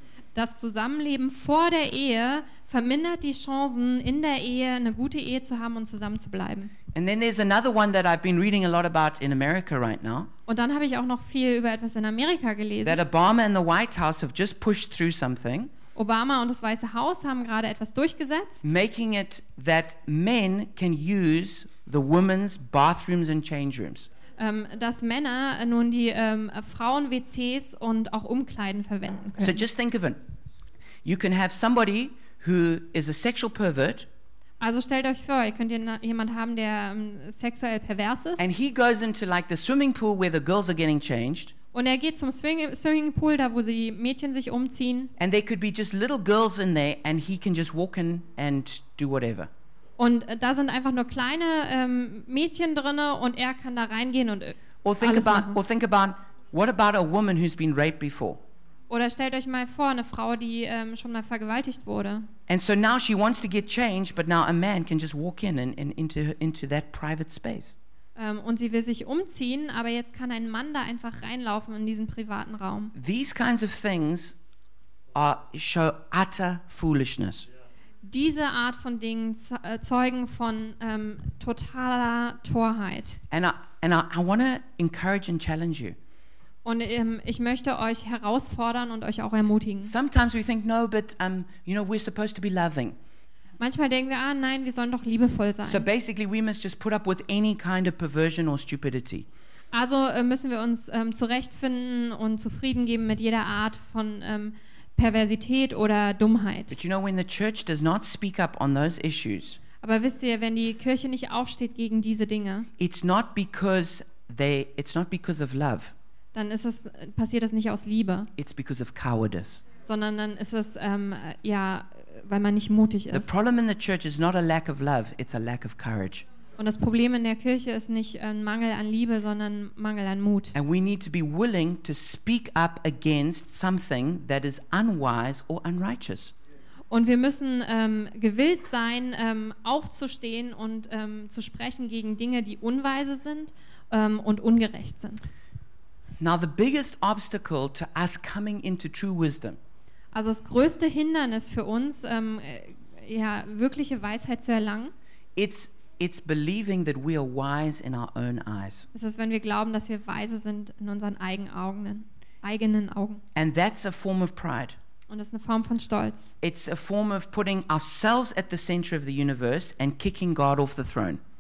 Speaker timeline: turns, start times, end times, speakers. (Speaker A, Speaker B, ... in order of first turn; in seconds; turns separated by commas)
Speaker A: 0.3-6.7, Speaker B: 6.9-10.3, Speaker A: 10.5-13.0, Speaker B: 12.8-15.7, Speaker A: 15.9-18.7, Speaker B: 18.6-24.1, Speaker A: 24.4-29.6, Speaker B: 29.4-30.2, Speaker B: 31.1-34.1, Speaker A: 34.6-38.5, Speaker B: 38.4-41.5, Speaker A: 41.7-45.1, Speaker B: 45.2-49.5, Speaker A: 50.0-55.6, Speaker B: 54.8-58.4, Speaker A: 58.9-62.3, Speaker B: 62.5-67.8, Speaker A: 68.2-72.9, Speaker B: 73.0-74.4, Speaker B: 75.1-77.5, Speaker A: 78.0-83.2, Speaker B: 83.3-86.0, Speaker A: 86.6-89.9, Speaker B: 89.8-93.0, Speaker A: 93.6-95.9, Speaker B: 95.7-99.3, Speaker A: 99.7-106.8, Speaker B: 106.7-109.6, Speaker A: 109.8-112.7, Speaker B: 112.8-115.9, Speaker A: 116.3-118.3, Speaker B: 118.4-119.6, Speaker A: 119.8-123.3, Speaker B: 123.1-126.3, Speaker A: 126.6-130.6, Speaker B: 130.6-136.3, Speaker A: 136.9-145.3, Speaker B: 146.2-149.6, Speaker A: 150.1-154.9, Speaker B: 155.4-158.9, Speaker A: 158.9-163.2, Speaker B: 163.3-164.8, Speaker A: 165.1-166.3, Speaker B: 166.4-171.2